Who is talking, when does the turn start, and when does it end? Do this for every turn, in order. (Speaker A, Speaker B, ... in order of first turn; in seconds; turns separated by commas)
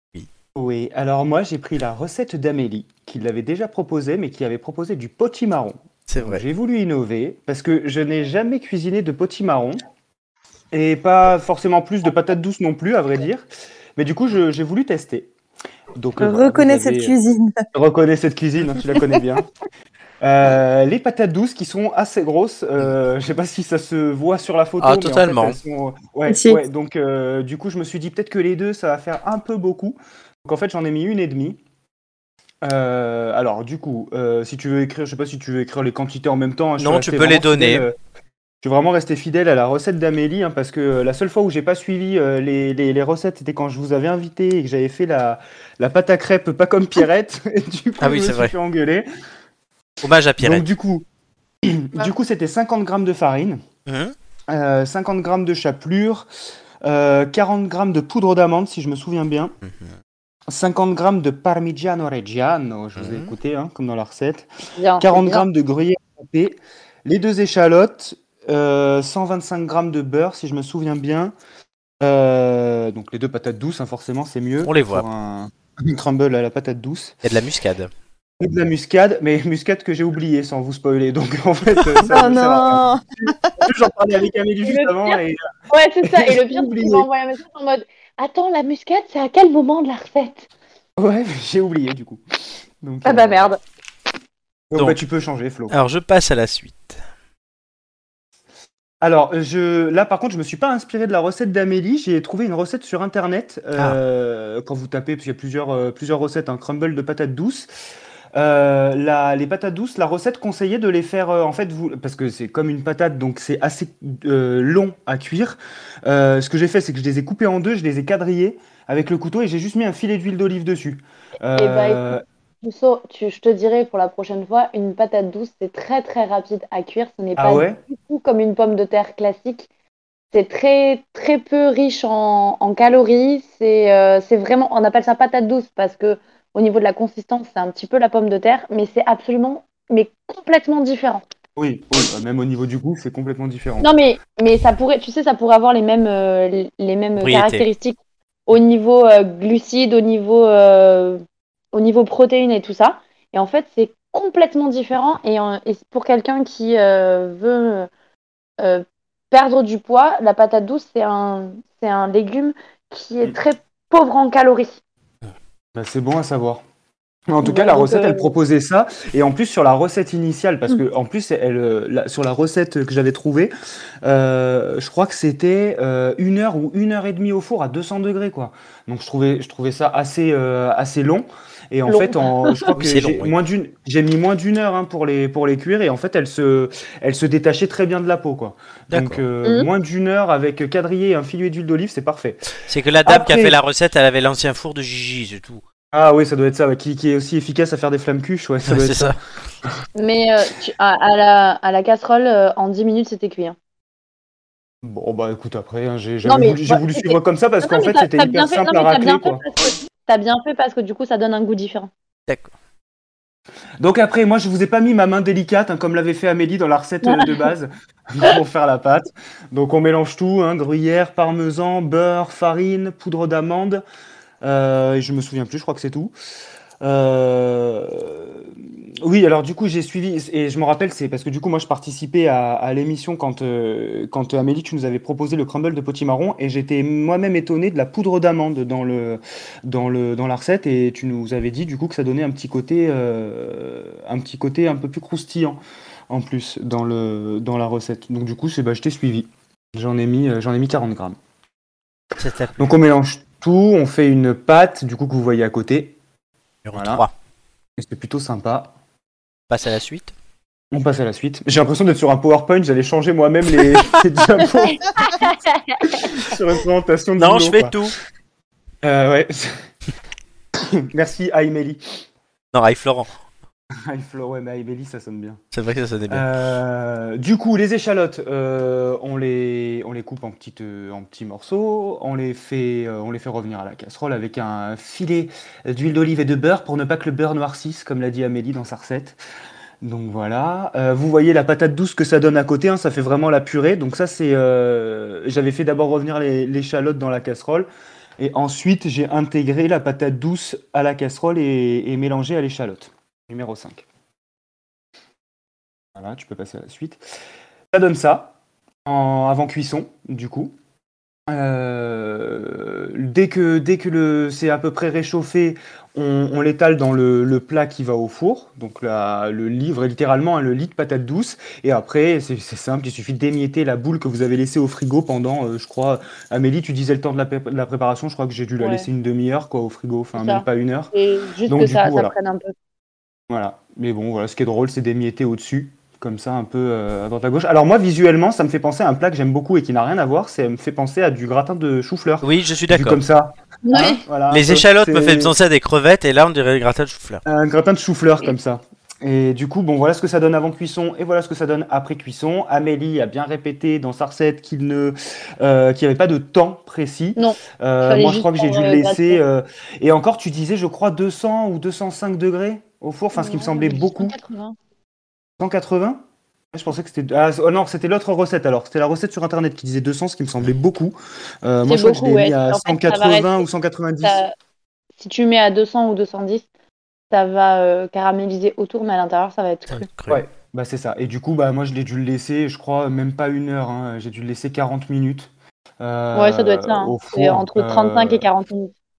Speaker A: 0.6-9.8, Speaker B: 6.1-6.4, Speaker A: 10.7-13.5, Speaker A: 14.0-15.3, Speaker A: 15.9-17.1, Speaker C: 16.2-17.6, Speaker A: 17.7-19.5, Speaker A: 20.2-31.6, Speaker B: 24.8-25.6, Speaker C: 26.3-26.6, Speaker A: 32.6-38.0, Speaker B: 36.8-37.9, Speaker A: 38.6-49.1, Speaker B: 48.0-48.5, Speaker B: 50.0-50.6, Speaker A: 50.4-51.0, Speaker A: 51.6-53.6, Speaker B: 53.9-54.1, Speaker A: 54.5-56.3, Speaker A: 56.8-59.5, Speaker B: 59.7-59.9, Speaker A: 60.5-64.5, Speaker B: 63.0-63.3, Speaker D: 64.8-65.5, Speaker A: 65.0-71.3, Speaker A: 72.0-77.2, Speaker B: 74.6-75.0, Speaker B: 77.2-77.9, Speaker A: 78.4-85.4, Speaker C: 82.0-83.7, Speaker D: 84.6-85.2, Speaker D: 85.7-90.5, Speaker A: 86.0-87.1, Speaker A: 91.0-92.2, Speaker A: 92.8-93.5, Speaker D: 93.0-93.6, Speaker A: 94.7-95.8, Speaker B: 95.7-97.0, Speaker A: 99.0-107.7, Speaker A: 108.3-122.2, Speaker D: 121.5-129.7, Speaker A: 127.4-127.8, Speaker D: 130.3-141.2, Speaker A: 141.6-143.9, Speaker D: 143.8-151.2, Speaker B: 147.2-147.7, Speaker D: 151.7-157.9, Speaker D: 158.6-164.8, Speaker A: 165.8-166.6, Speaker A: 167.3-173.5, Speaker D: 167.4-168.3, Speaker A: 174.0-192.4, Speaker D: 181.9-182.7, Speaker B: 182.7-183.3, Speaker B: 188.9-189.2, Speaker D: 189.4-189.7, Speaker B: 192.7-195.6, Speaker A: 193.1-193.6, Speaker A: 195.9-199.1, Speaker B: 198.7-199.2, Speaker D: 200.0-203.6, Speaker A: 204.8-209.4, Speaker D: 206.2-211.9, Speaker A: 213.8-223.8, Speaker D: 217.0-217.5, Speaker A: 224.4-226.1, Speaker A: 226.8-228.5, Speaker A: 229.0-251.2, Speaker B: 252.2-252.6, Speaker A: 252.6-256.0, Speaker B: 256.6-257.1, Speaker A: 256.7-257.1, Speaker A: 257.8-258.7, Speaker B: 259.5-260.1, Speaker A: 260.7-265.2, Speaker D: 265.0-266.1, Speaker A: 265.8-267.8, Speaker B: 267.2-267.9, Speaker A: 268.8-269.6, Speaker A: 270.7-271.8, Speaker B: 272.5-273.1, Speaker A: 273.9-275.4, Speaker B: 275.5-276.3, Speaker A: 276.1-289.2, Speaker A: 289.8-297.7, Speaker A: 298.2-303.9, Speaker A: 306.0-307.0, Speaker A: 307.7-308.3, Speaker A: 308.9-310.5, Speaker A: 311.3-330.9, Speaker D: 328.6-328.9, Speaker D: 330.2-332.5, Speaker A: 331.5-332.1, Speaker A: 333.3-345.3, Speaker B: 342.2-343.0, Speaker D: 343.6-344.1, Speaker B: 344.3-347.2, Speaker A: 347.2-364.1, Speaker D: 357.2-359.2, Speaker D: 363.1-364.6, Speaker A: 365.4-366.0, Speaker A: 366.5-374.2, Speaker D: 371.7-373.4, Speaker D: 374.0-374.3, Speaker D: 375.0-376.5, Speaker D: 377.1-379.9, Speaker B: 379.7-380.2, Speaker A: 380.1-388.3, Speaker D: 386.1-388.7